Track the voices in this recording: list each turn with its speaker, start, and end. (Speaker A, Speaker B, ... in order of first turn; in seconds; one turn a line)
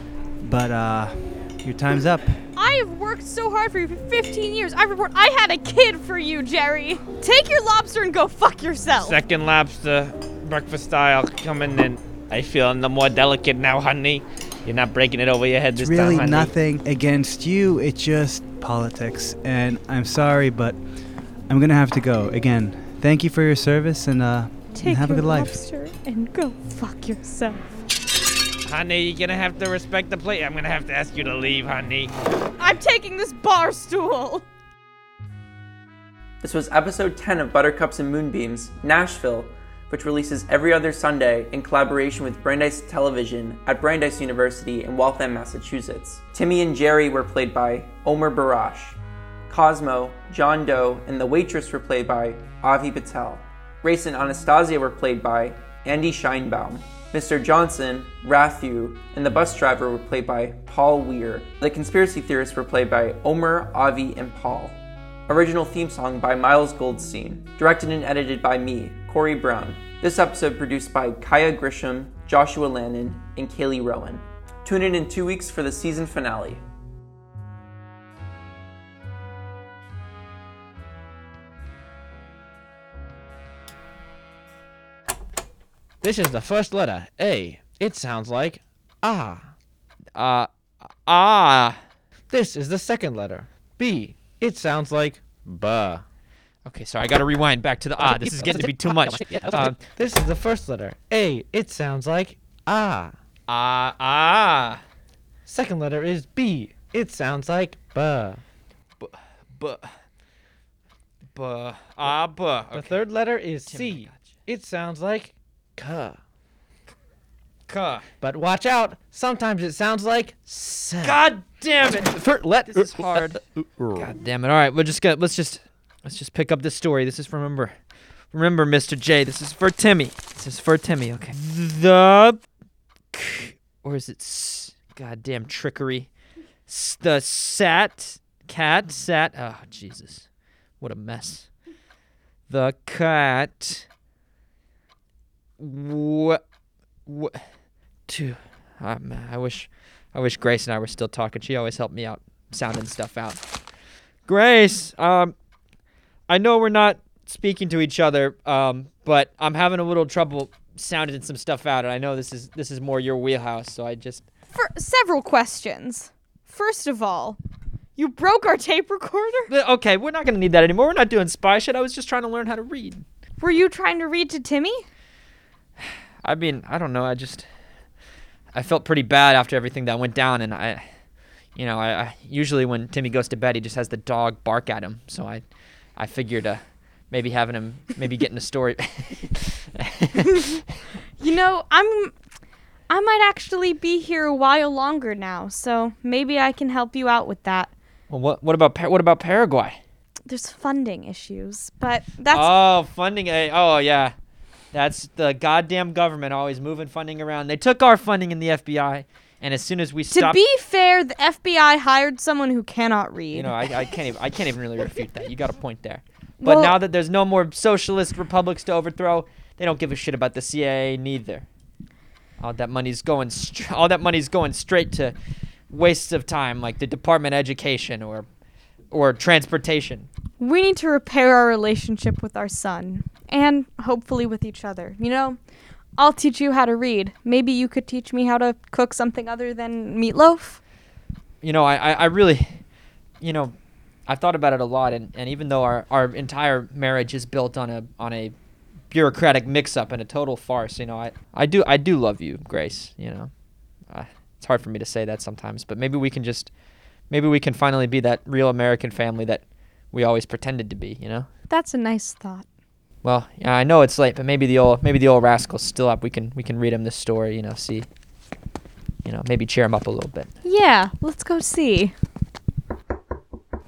Speaker A: 0.4-2.4
Speaker B: 2.5-9.2
Speaker C: 9.0-16.5
Speaker A: 15.8-20.8
Speaker A: 21.5-25.6
Speaker B: 24.7-27.8
Speaker C: 28.6-32.1
Speaker B: 32.6-34.4
Speaker D: 36.4-64.8
Speaker D: 65.3-76.6
Speaker C: 86.0-89.4
Speaker E: 90.1-90.5
Speaker E: 91.0-91.8
Speaker C: 92.3-96.0
Speaker E: 96.7-99.8
Speaker C: 98.0-103.1
Speaker E: 103.5-104.8
Speaker C: 105.5-108.4
Speaker E: 109.0-109.9
Speaker E: 111.3-113.0
Speaker C: 112.7-116.2
Speaker E: 113.7-114.3
Speaker E: 117.7-118.0
Speaker C: 118.2-121.2
Speaker E: 121.0-123.4
Speaker C: 122.1-123.2
Speaker E: 123.9-127.7
Speaker E: 128.3-132.4
Speaker E: 133.1-136.1
Speaker E: 136.7-140.3
Speaker E: 140.8-141.5
Speaker E: 142.5-143.8
Speaker E: 145.6-146.4
Speaker E: 147.1-147.4
Speaker E: 148.1-153.4
Speaker E: 154.3-155.3
Speaker E: 156.3-164.2
Speaker B: 164.5-167.4
Speaker B: 167.9-169.5
Speaker E: 169.5-173.0
Speaker B: 173.4-174.8
Speaker E: 176.2-177.4
Speaker E: 178.5-180.8
Speaker E: 181.6-185.4
Speaker E: 186.0-190.5
Speaker B: 191.2-192.1
Speaker B: 192.9-197.7
Speaker E: 198.1-199.8
Speaker B: 200.2-202.5
Speaker E: 202.3-204.1
Speaker E: 204.7-210.4
Speaker B: 210.1-213.5
Speaker E: 213.3-221.4
Speaker B: 216.4-216.8
Speaker E: 222.4-225.1
Speaker E: 225.7-228.2
Speaker E: 228.9-230.1
Speaker B: 230.4-235.4
Speaker B: 236.0-240.6
Speaker E: 241.4-242.6
Speaker E: 243.2-243.5
Speaker E: 244.1-248.3
Speaker E: 248.9-253.3
Speaker E: 253.9-256.5
Speaker E: 257.1-261.3
Speaker B: 261.5-262.4
Speaker E: 263.0-267.9
Speaker E: 269.0-270.3
Speaker B: 270.4-271.9